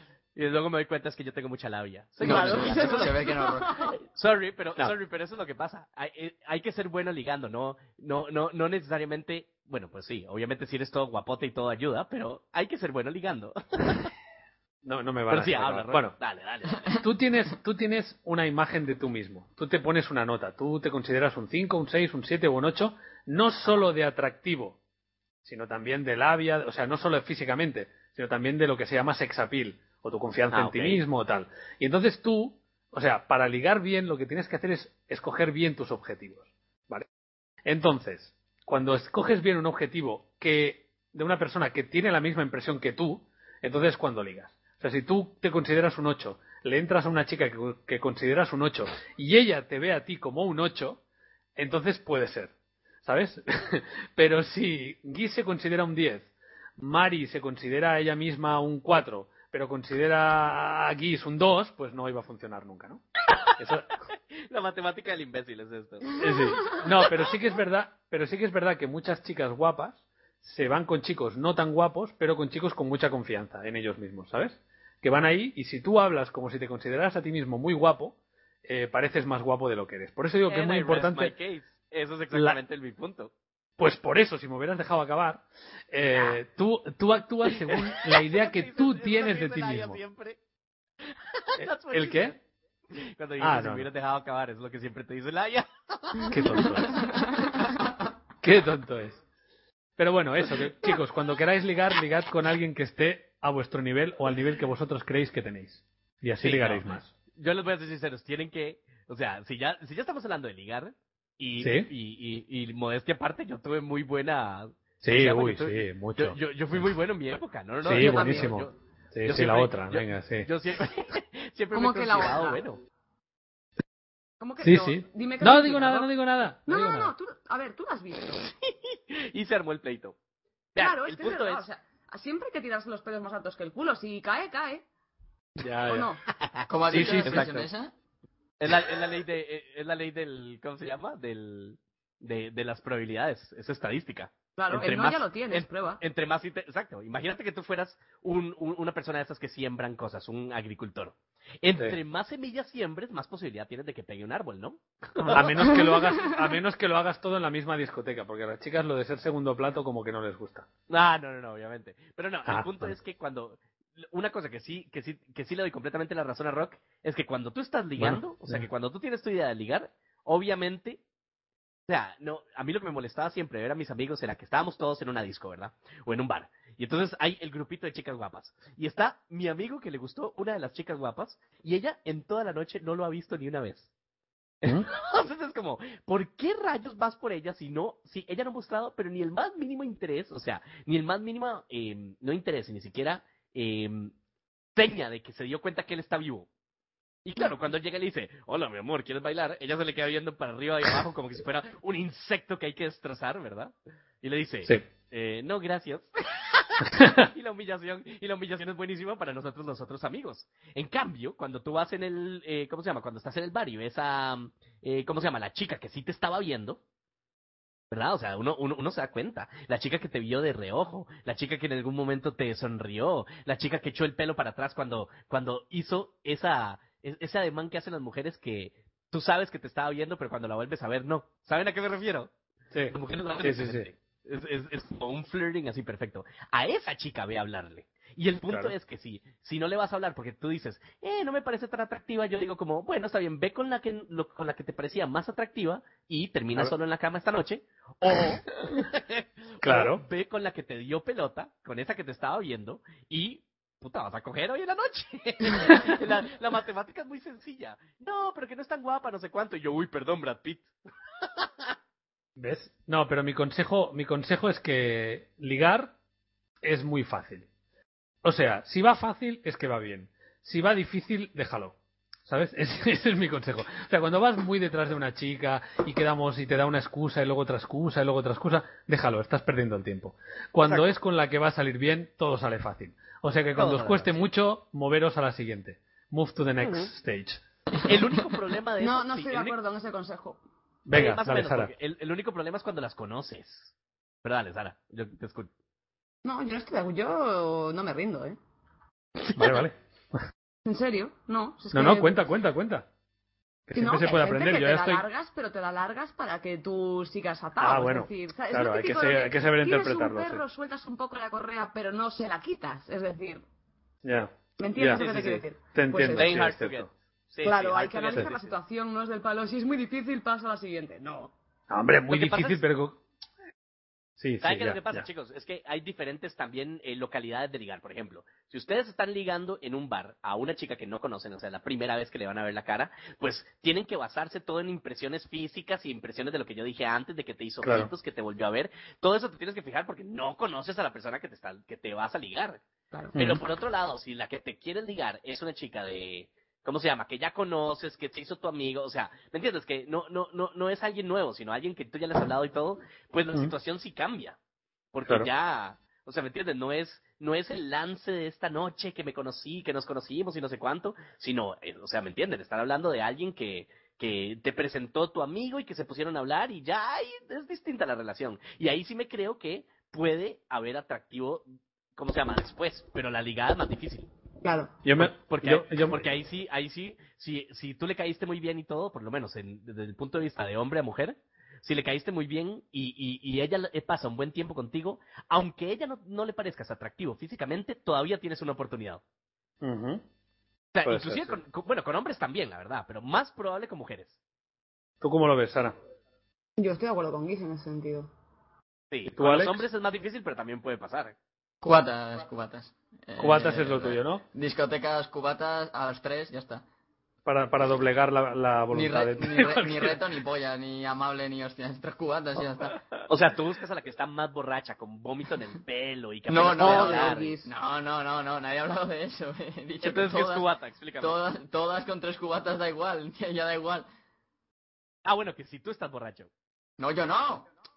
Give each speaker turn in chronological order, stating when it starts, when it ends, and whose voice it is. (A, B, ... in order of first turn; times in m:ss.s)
0:00.4-0:03.3 A
0:02.2-0:03.8 B
0:02.2-0:03.9 C
0:04.1-0:14.1 A
0:14.8-0:16.2 D
0:15.3-0:16.9 A
0:17.0-0:24.8 D
0:25.4-0:37.0 D
0:30.5-0:31.0 A
0:37.6-0:51.0 D
0:51.6-1:03.0 D
1:03.6-1:03.9 D
1:04.3-1:06.8 A
1:06.2-1:21.3 D
1:20.5-1:23.3 A
1:22.3-1:22.6 D
1:23.8-1:30.0 D
1:27.5-1:30.4 A
1:31.0-1:32.4 A
1:31.6-1:32.4 D
1:32.9-1:36.8 A
1:33.4-1:33.9 D
1:36.3-1:37.0 D
1:36.9-1:37.9 B
1:38.4-1:39.2 D
1:40.0-1:47.1 D
1:46.4-1:58.7 A
1:51.6-1:51.9 D
1:55.0-1:56.4 D
1:57.8-2:00.5 D
1:57.9-1:58.5 C
1:59.2-2:02.8 A
2:01.7-2:02.6 C
2:04.4-2:06.1 C
2:04.6-2:07.1 D
2:06.7-2:08.5 C
2:08.5-2:10.2 A
2:10.7-2:11.6 A
2:10.8-2:14.8 C
2:15.6-2:16.1 D
2:15.9-2:16.2 C
2:16.4-2:17.5 A
2:16.7-2:17.9 B
2:16.9-2:17.7 D
2:18.6-2:35.8 A
2:24.6-2:26.0 C
2:35.2-2:40.7 D
2:40.9-2:51.0 A
2:42.4-2:42.9 D
2:48.0-2:48.7 D
2:51.9-3:03.9 A
3:04.6-3:14.1 A
3:14.8-3:16.5 A
3:17.2-3:36.8 A
3:27.0-3:27.2 D
3:37.9-3:52.3 A
3:52.7-3:53.9 D
3:52.9-4:21.7 A
3:58.5-3:58.7 D
4:08.1-4:08.8 D
4:09.6-4:10.0 D
4:22.4-4:25.9 D
4:26.6-4:27.4 D
4:28.2-4:31.7 D
4:32.2-4:47.4 D
4:40.6-4:40.9 A
4:43.6-4:44.2 A
4:46.6-4:46.9 A
4:47.8-4:49.5 A
4:48.8-4:50.4 C
4:50.8-4:51.7 D
4:50.9-4:53.7 A
4:54.2-4:55.5 A
4:56.2-4:58.4 C
4:59.4-4:59.8 D
5:00.6-5:02.2 C
5:01.7-5:02.9 D
5:03.7-5:05.0 D
5:03.7-5:13.4 C
5:07.6-5:10.4 D
5:14.0-5:16.9 D
5:14.6-5:16.4 C
5:15.0-5:15.4 A
5:16.1-5:18.6 A
5:17.4-5:21.3 C
5:21.7-5:23.0 D
5:22.1-5:22.6 A
5:24.2-5:25.0 D
5:24.4-5:42.6 A
5:37.6-5:37.9 D
5:43.1-5:43.4 D
5:43.2-5:54.4 A
5:54.9-6:11.4 A
6:12.0-6:14.1 A
6:14.4-6:14.7 C
6:14.8-6:16.0 D
6:15.0-6:29.0 A
6:29.6-6:30.0 D
6:30.7-6:34.2 A
6:30.8-6:31.4 D
6:35.0-6:35.7 D
6:36.6-6:38.1 C
6:38.9-6:41.2 A
6:39.1-6:39.6 D
6:41.6-6:46.6 B
6:43.2-6:44.2 D
6:47.2-6:50.0 D
6:48.7-6:52.8 B
6:53.0-6:57.4 A
6:56.3-7:00.4 B
6:56.6-6:57.5 C
6:59.8-7:01.2 A
7:01.0-7:03.9 B
7:05.0-7:06.3 A
7:06.8-7:07.5 B